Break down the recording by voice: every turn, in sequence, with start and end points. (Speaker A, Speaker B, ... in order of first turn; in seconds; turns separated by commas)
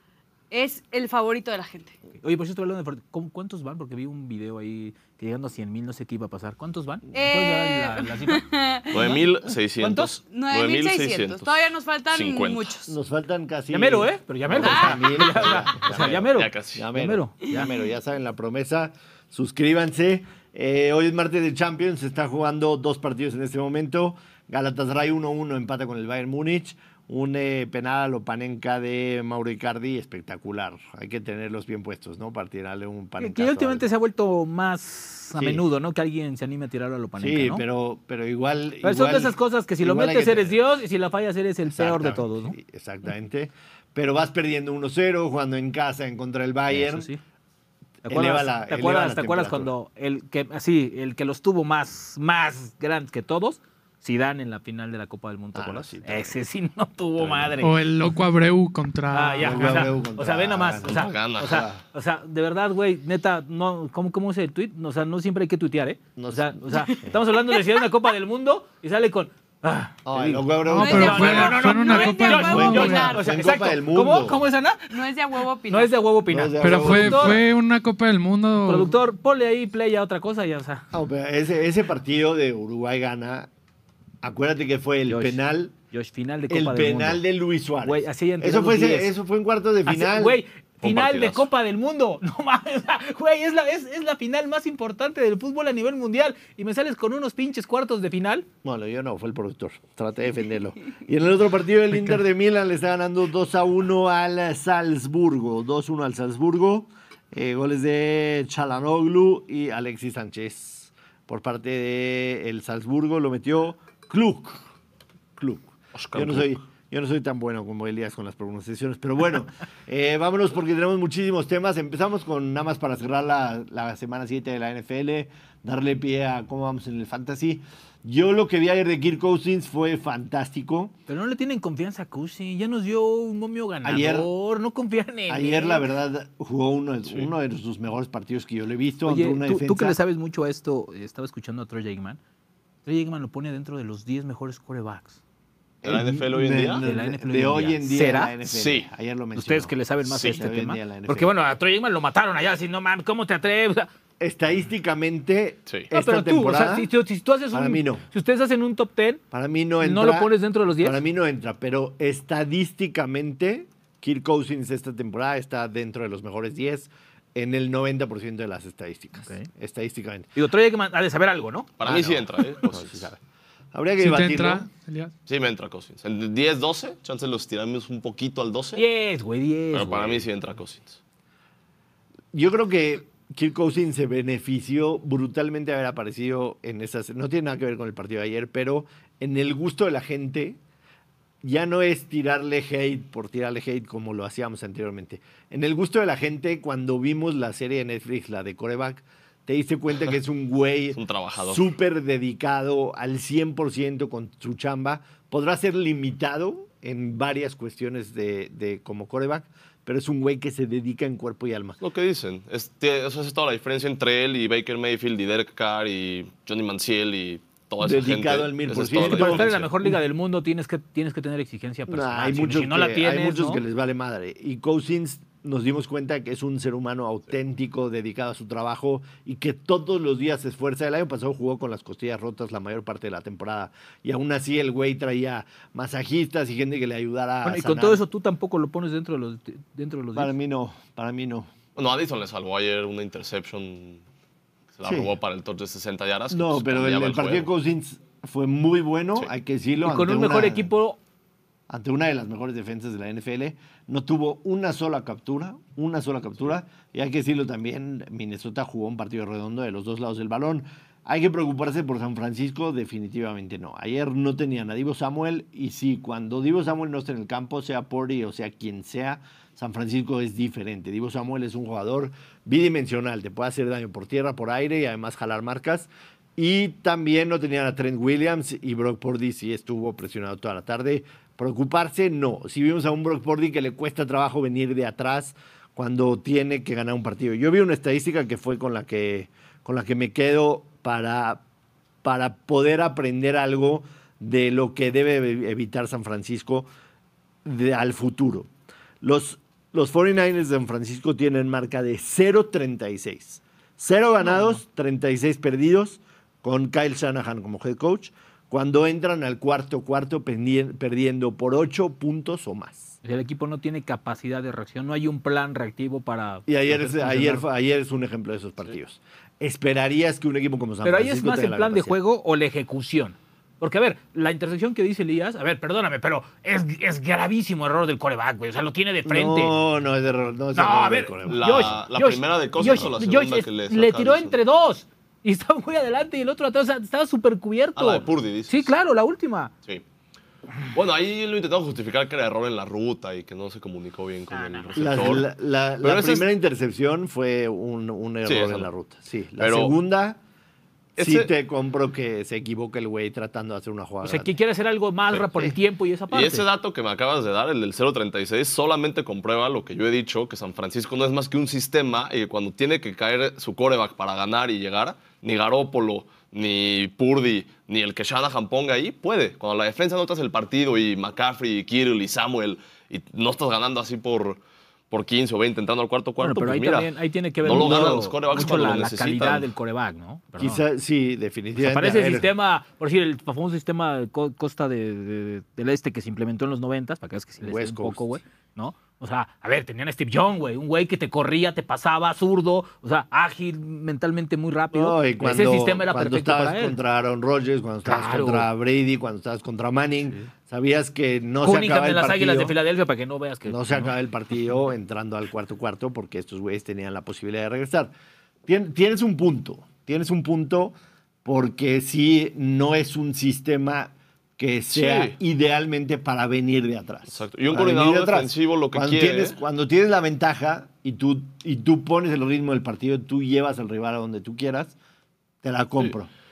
Speaker A: 0.5-2.0, Speaker B: 2.2-8.4, Speaker A: 7.1-9.2, Speaker C: 8.9-11.5, Speaker B: 9.8-10.1, Speaker A: 10.3-12.9, Speaker C: 12.1-12.6, Speaker D: 12.9-33.9, Speaker B: 13.7-17.7, Speaker A: 14.6-15.3, Speaker C: 15.5-16.9, Speaker B: 33.2-37.6, Speaker D: 35.4-35.6, Speaker D: 37.2-40.6, Speaker B: 38.8-42.6, Speaker D: 41.7-47.1, Speaker B: 46.7-47.2, Speaker B: 48.0-58.0, Speaker D: 48.1-49.7, Speaker D: 55.5-56.4, Speaker D: 57.2-57.6, Speaker E: 57.6-59.9, Speaker B: 59.1-75.0, Speaker D: 59.4-61.8, Speaker C: 60.9-61.7, Speaker D: 66.2-67.2, Speaker A: 66.7-67.6, Speaker D: 70.0-71.4, Speaker E: 70.7-73.2, Speaker A: 70.7-73.2, Speaker D: 72.5-74.4, Speaker A: 74.9-76.0, Speaker B: 75.7-77.5, Speaker D: 76.3-77.5, Speaker E: 76.6-78.9, Speaker B: 78.7-80.9, Speaker D: 80.9-83.5, Speaker D: 84.2-85.7, Speaker B: 85.1-87.2, Speaker D: 86.5-90.4, Speaker B: 87.8-89.1, Speaker B: 89.8-98.5, Speaker C: 90.8-91.5, Speaker D: 98.6-114.6, Speaker E: 101.9-102.2, Speaker D: 115.3-130.9, Speaker C: 115.9-116.5, Speaker B: 131.1-135.9, Speaker D: 133.8-134.3, Speaker D: 135.3-140.0, Speaker B: 139.1-142.2, Speaker B: 142.8-145.2, Speaker D: 145.8-151.3, Speaker C: 145.8-146.8, Speaker B: 146.7-148.3, Speaker C: 148.5-148.9, Speaker B: 149.3-153.9, Speaker C: 150.0-150.4, Speaker D: 154.2-156.9, Speaker B: 155.9-159.2, Speaker D: 157.5-158.0, Speaker D: 159.3-170.3, Speaker B: 159.8-161.0, Speaker B: 169.2-169.5, Speaker B: 170.3-171.7, Speaker C: 171.8-173.0, Speaker D: 171.8-173.2, Speaker D: 173.7-174.7, Speaker E: 174.0-175.1, Speaker C: 175.2-178.8, Speaker B: 178.7-180.2, Speaker C: 179.7-181.0, Speaker D: 182.3-190.6, Speaker D: 191.4-211.8, Speaker C: 200.9-201.7, Speaker C: 211.8-219.7, Speaker D: 217.8-219.5, Speaker B: 218.9-223.6, Speaker D: 221.9-238.0, Speaker B: 237.4-240.3, Speaker D: 240.1-241.5, Speaker C: 241.7-244.0, Speaker C: 244.7-247.5, Speaker D: 244.8-245.1, Speaker D: 246.3-250.7, Speaker B: 249.8-251.0, Speaker D: 251.7-291.4, Speaker D: 292.0-296.7, Speaker D: 297.4-298.5, Speaker D: 299.0-312.9, Speaker B: 304.3-304.6, Speaker B: 313.0-317.4, Speaker D: 316.5-322.0, Speaker B: 320.8-329.5, Speaker D: 329.1-331.8, Speaker B: 330.5-339.5, Speaker C: 331.3-334.4, Speaker C: 337.8-338.7, Speaker C: 340.7-345.3, Speaker B: 344.3-344.7, Speaker D: 344.8-350.2, Speaker C: 345.8-346.3, Speaker C: 348.2-348.7, Speaker C: 349.4-349.7, Speaker C: 351.0-351.3, Speaker D: 351.0-354.3, Speaker B: 354.0-356.4, Speaker C: 356.1-376.9, Speaker B: 376.2-380.6, Speaker C: 377.4-379.5, Speaker D: 377.4-378.0, Speaker D: 380.4-382.3, Speaker B: 381.6-396.8, Speaker D: 387.4-388.1, Speaker D: 394.7-402.5, Speaker B: 397.8-398.5, Speaker B: 401.4-403.9, Speaker D: 403.4-407.9, Speaker D: 408.4-424.8, Speaker C: 414.7-415.1, Speaker C: 417.1-419.4, Speaker D: 425.4-426.1